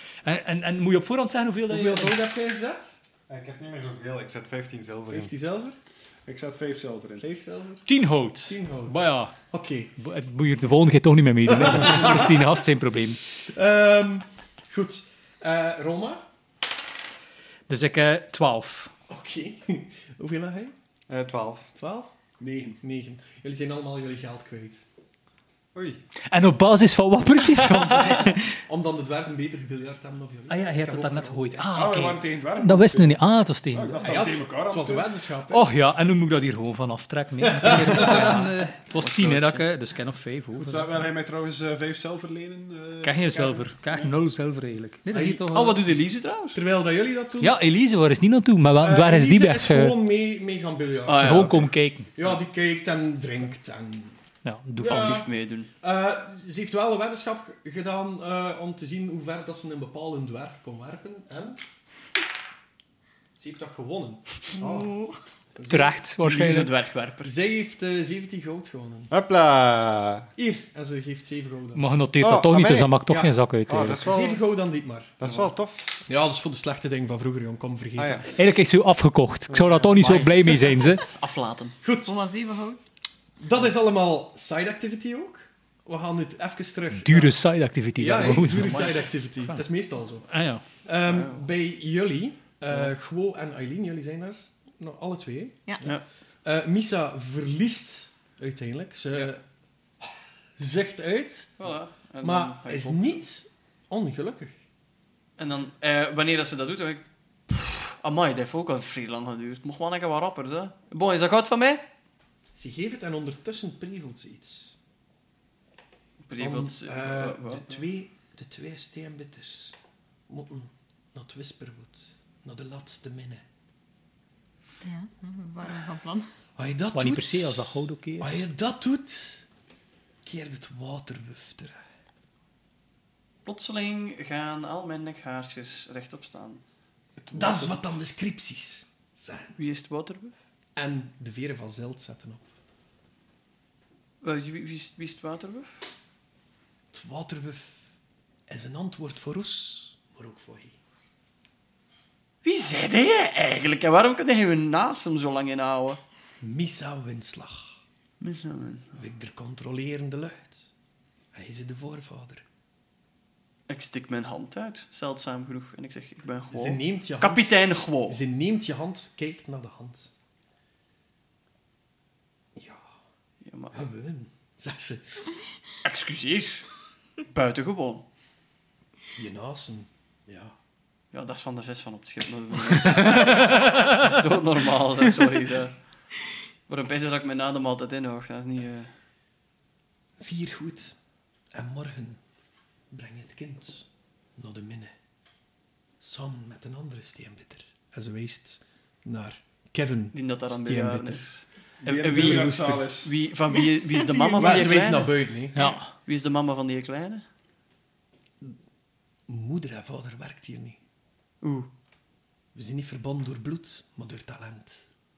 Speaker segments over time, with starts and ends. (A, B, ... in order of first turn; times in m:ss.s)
0:00.2-0:02.2 A
0:01.7-0:03.0 B
0:03.3-0:05.3 C
0:05.1-0:05.8 B
0:06.3-0:07.3 D
0:07.2-0:07.9 B
0:07.9-0:09.4 A
0:08.4-0:09.9 B
0:10.0-0:13.2 A
0:11.5-0:12.6 B
0:13.3-0:16.3 B
0:17.7-0:18.9 A
0:19.1-0:20.8 B
0:21.1-0:21.7 C
0:21.8-0:22.2 B
0:22.4-0:22.8 D
0:22.8-0:24.8 B
0:25.8-0:26.0 C
0:26.3-0:28.6 A
0:27.8-0:31.7 B
0:30.5-0:34.2 A
0:31.7-0:35.1 D
0:34.0-0:35.7 B
0:35.5-0:40.9 A
0:37.4-0:38.4 B
0:38.9-0:39.7 E
0:40.6-0:44.2 D
0:43.0-0:45.8 A
0:45.1-0:45.5 B
0:45.5-0:46.6 E
0:46.5-0:47.6 B
0:47.4-0:50.0 A
0:48.8-0:54.2 B
0:51.1-0:51.7 E
0:51.2-0:52.1 A
0:54.4-0:55.2 A
0:54.8-1:01.6 B
0:54.8-0:55.7 E
1:03.4-1:04.4 B
1:04.6-1:05.2 F
1:04.6-1:04.9 C
1:05.6-1:06.0 B
1:05.7-1:06.7 A
1:06.2-1:07.3 E
1:07.2-1:09.1 B
1:09.1-1:10.3 C
1:10.4-1:11.8 B
1:11.8-1:14.0 A
1:12.2-1:13.0 C
1:13.1-1:15.4 B
1:13.7-1:14.4 C
1:15.2-1:16.0 C
1:16.1-1:18.3 B
1:18.0-1:18.3 C
1:18.3-1:21.1 A
1:19.5-1:20.1 C
1:20.0-1:21.8 E
1:21.8-1:22.2 B
1:22.0-1:22.9 F
1:23.4-1:27.4 B
1:27.0-1:28.9 A
1:28.0-1:39.4 B
1:28.4-1:29.0 E
1:30.3-1:30.6 A
1:31.1-1:31.4 E
1:40.0-1:41.6 B
1:41.6-1:43.2 E
1:42.2-1:44.6 B
1:45.4-1:51.8 E
1:52.6-1:54.8 B
1:56.3-1:57.9 E
1:56.4-1:59.8 B
2:00.3-2:03.5 B
2:04.8-2:06.3 F
2:06.6-2:09.5 B
2:06.9-2:08.4 A
2:10.2-2:11.8 B
2:13.4-2:16.6 E
2:17.2-2:17.8 D
2:17.3-2:19.6 B
2:19.6-2:20.4 E
2:20.8-2:22.5 B
2:24.2-2:25.8 E
2:26.9-2:27.9 B
2:28.5-2:30.8 B
2:32.4-2:36.0 E
2:36.4-2:37.8 B
2:38.2-2:39.0 E
2:39.0-2:40.7 B
2:41.3-2:42.4 B
2:43.7-2:48.2 E
2:46.5-2:50.1 B
2:52.6-2:53.0 B
2:53.4-2:53.8 E
2:53.7-2:55.2 B
2:55.8-2:56.7 E
2:57.3-2:58.1 E
2:59.2-3:00.6 B
3:01.1-3:05.8 E
3:06.7-3:08.9 E
3:10.2-3:11.0 B
3:11.5-3:12.2 B
3:12.9-3:14.9 B
3:16.0-3:21.3 B
3:20.1-3:27.2 E
3:21.8-3:23.2 D
3:22.1-3:22.9 B
3:24.1-3:24.6 F
3:24.4-3:25.6 B
3:25.6-3:25.9 A
3:29.3-3:30.8 B
3:31.4-3:31.7 E
3:32.6-3:34.8 B